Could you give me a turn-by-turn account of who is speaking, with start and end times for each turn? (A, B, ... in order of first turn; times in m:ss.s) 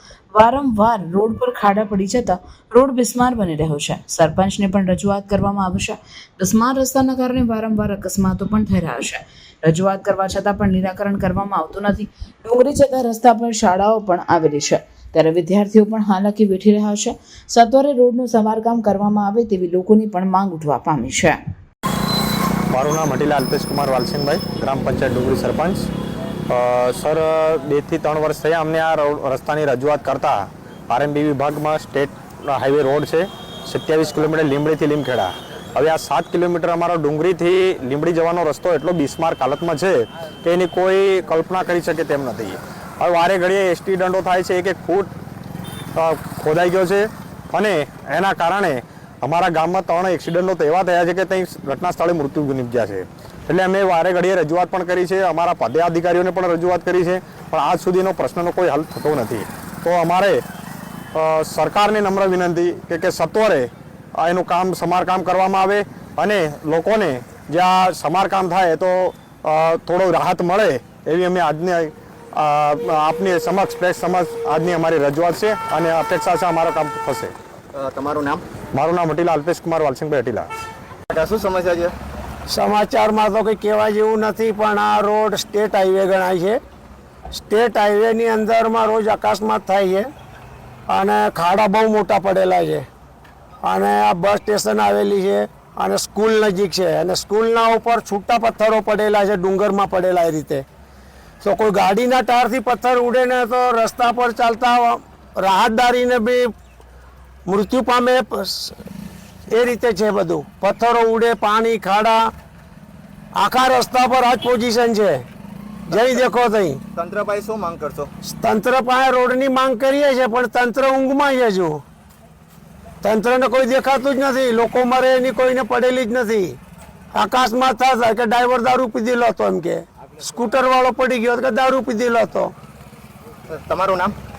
0:00.3-0:21.4 A
0:22.7-0:25.9 B
0:26.5-0:45.1 B
0:45.9-1:00.4 B
1:01.1-1:17.3 B
1:17.7-1:18.4 C
1:18.7-1:20.5 B
1:21.1-1:21.9 C
1:22.5-1:26.6 D
1:27.3-1:30.1 D
1:30.9-1:32.8 D
1:33.6-1:40.6 D
1:41.4-1:46.5 D
1:47.5-1:48.8 D
1:49.5-1:52.3 D
1:53.4-1:55.2 D
1:55.9-1:56.8 D
1:55.9-1:56.2 C
1:57.0-1:58.1 C
1:58.2-2:01.8 D
2:03.0-2:06.6 D
2:07.2-2:12.5 D
2:13.5-2:14.1 C